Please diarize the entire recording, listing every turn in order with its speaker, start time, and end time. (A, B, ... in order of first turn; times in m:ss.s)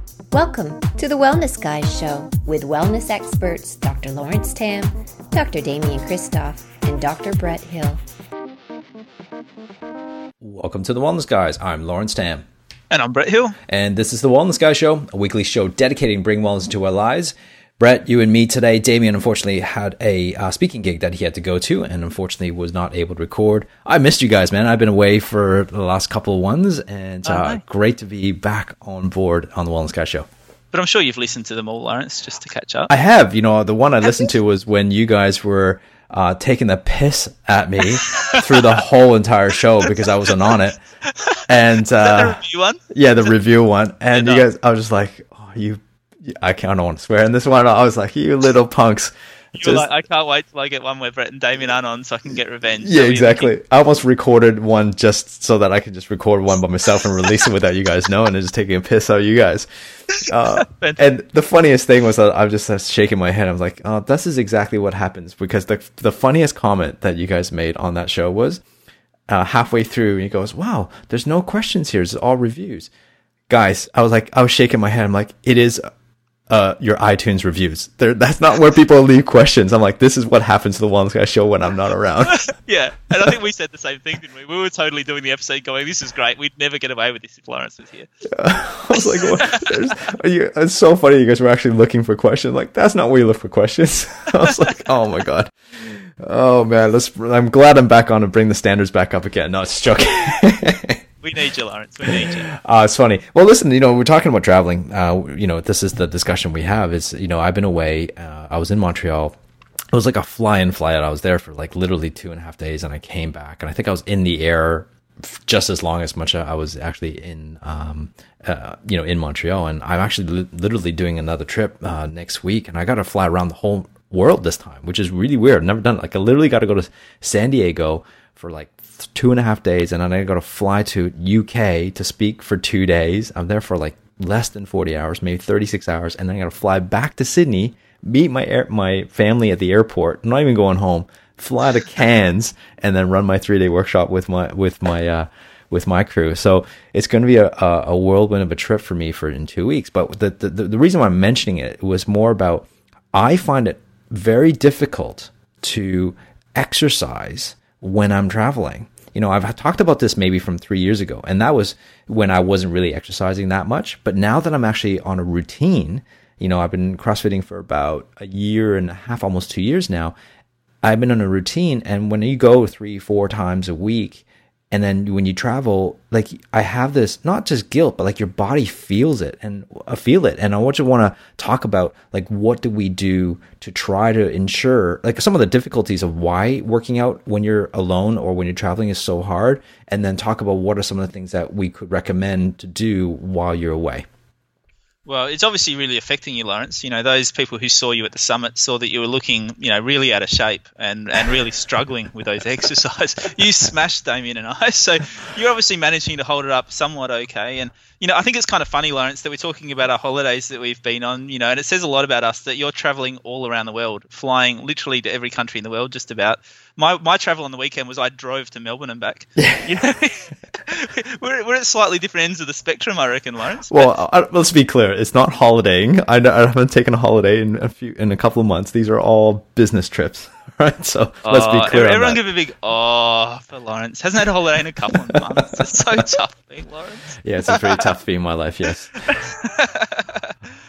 0:00.3-0:08.0 A
0:10.4-0:12.4 B
0:12.9-0:13.6 C
0:13.7-0:30.3 B
0:27.2-0:27.6 C
0:30.7-0:32.9 C
0:32.9-0:40.8 B
0:38.0-0:38.6 C
0:41.1-0:43.3 C
0:41.5-0:42.4 B
0:42.9-0:49.9 B
0:44.1-0:44.4 C
0:49.5-0:53.5 C
0:52.8-1:08.6 B
1:00.5-1:01.0 C
1:09.3-1:12.9 B
1:13.5-1:15.8 B
1:16.5-1:22.4 B
1:22.3-1:28.1 C
1:28.3-1:41.0 B
1:28.9-1:29.7 C
1:41.2-1:42.5 C
1:42.0-1:49.3 B
1:49.9-2:50.1 B
2:50.8-3:14.0 B
3:15.0-3:43.9 C
3:39.4-3:39.7 B
3:43.7-3:52.2 B
3:51.2-3:57.9 C
3:54.9-3:55.7 B
3:57.2-3:58.9 B
3:59.0-4:00.3 C